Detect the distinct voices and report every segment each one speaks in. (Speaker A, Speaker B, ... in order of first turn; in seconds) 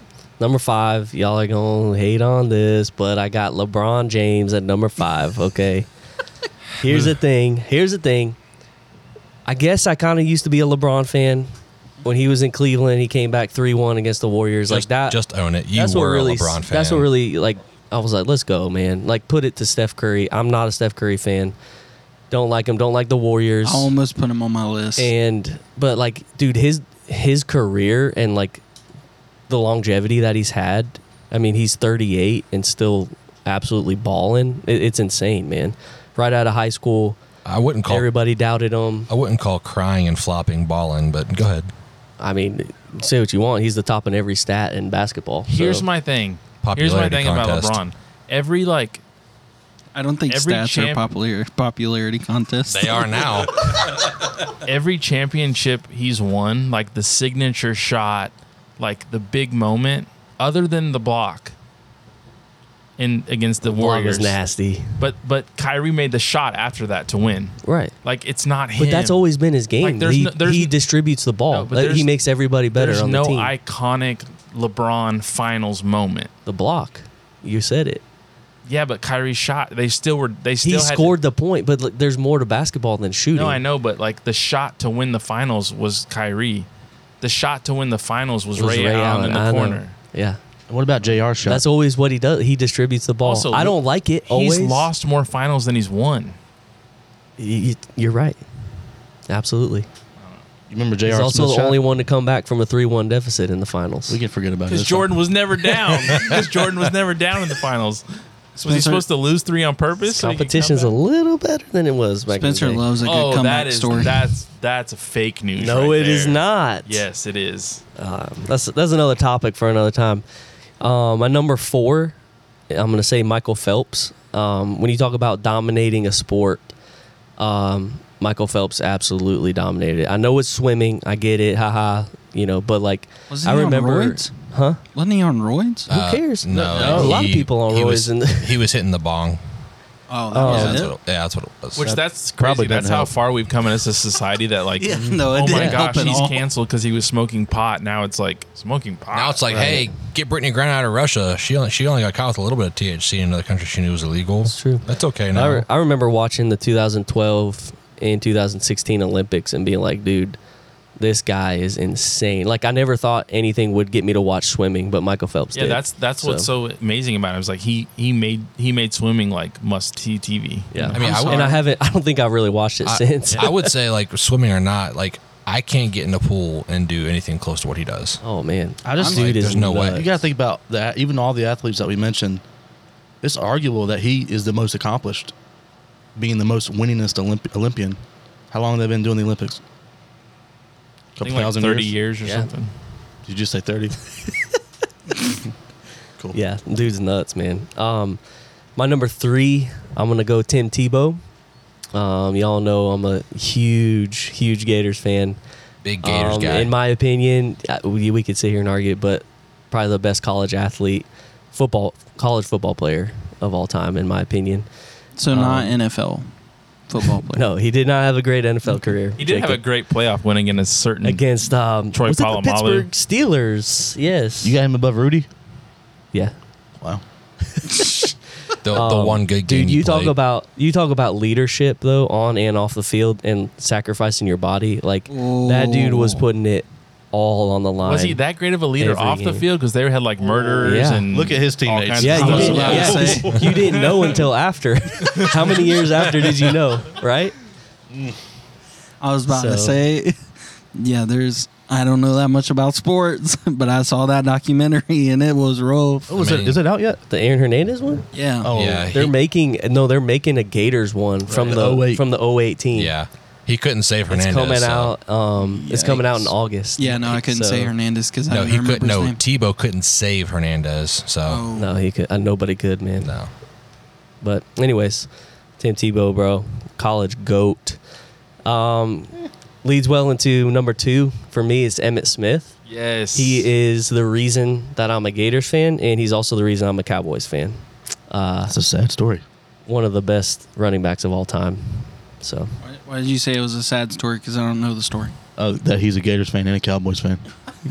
Speaker A: 0.4-5.9, 6.8-8.4, 9.5-11.5, 12.0-15.2, 15.7-21.6, 22.3-23.9, 25.0-28.6, 29.5-37.2, 37.9-39.1, 42.2-45.9, 63.6-65.0, 67.6-67.9, 68.8-73.5, 76.5-78.0, 80.6-83.6, 88.6-90.4, 91.5-94.9, 97.4-98.4, 99.3-99.9, 101.1-104.2, 110.1-112.9, 115.6-117.0, 118.0-120.2, 120.8-122.2, 122.7-126.7, 127.4-134.8, 135.9-138.6, 140.3-140.9, 145.5-146.1, 149.5-149.9, 154.4-160.4, 161.0-166.5, 170.7-173.7, 178.2-180.2, 192.2-192.5, 196.3-198.2, 198.8-201.2, 201.9-205.4, 206.0-214.7, 215.3-215.8, 217.3-219.6, 221.0-224.6, 227.6-238.2, 238.8-239.5, 240.4-241.1, 242.0-247.4, 249.3-249.8, 257.1-258.1, 258.9-262.9, 264.1-267.7, 271.6-273.1, 274.2-277.8, 278.4-282.6, 283.1-288.5, 289.7-292.6
Speaker B: 14.7-17.1, 37.5-38.1, 39.1-41.7, 46.6-47.8, 52.7-53.6, 135.9-139.4, 140.4-141.9, 149.1-155.7, 170.9-171.5, 172.8-178.2, 179.0-180.1, 205.8-206.7, 228.6-230.2, 256.1-256.6, 258.5-259.1, 262.7-265.0, 268.3-271.4, 273.0-273.3
Speaker C: 23.6-25.1, 50.0-53.5, 108.6-109.0, 112.3-114.3, 133.3-134.3, 134.9-135.9, 140.1-140.9, 144.8-146.4, 179.0-179.3, 215.2-216.3, 216.9-217.4, 235.1-236.3, 242.2-243.6, 249.0-250.2, 250.7-256.2, 258.1-258.5, 265.4-269.2, 271.3-271.7, 292.6-295.1
Speaker D: 45.5-49.0, 50.3-51.1, 54.6-61.5, 63.0-64.4, 65.0-69.2, 69.8-70.8, 71.5-72.1, 72.8-76.3, 78.7-81.2, 83.3-86.7, 87.2-90.0, 93.2-96.4, 104.7-108.1, 108.6-110.9, 113.0-117.8, 141.8-149.5, 165.5-171.5, 191.2-192.7, 219.2-221.3, 221.9-222.9, 237.8-244.0, 282.7-283.5
Speaker E: 90.7-91.7, 100.7-101.8, 104.1-105.1, 136.5-137.2, 141.8-143.1, 145.0-145.3, 178.8-182.4, 183.2-185.3, 186.2-188.0, 188.5-189.6, 191.2-191.9, 193.2-194.0, 224.4-225.3, 241.1-243.9, 256.1-257.0, 258.4-258.9, 261.3-262.1, 288.5-289.2, 295.4-297.2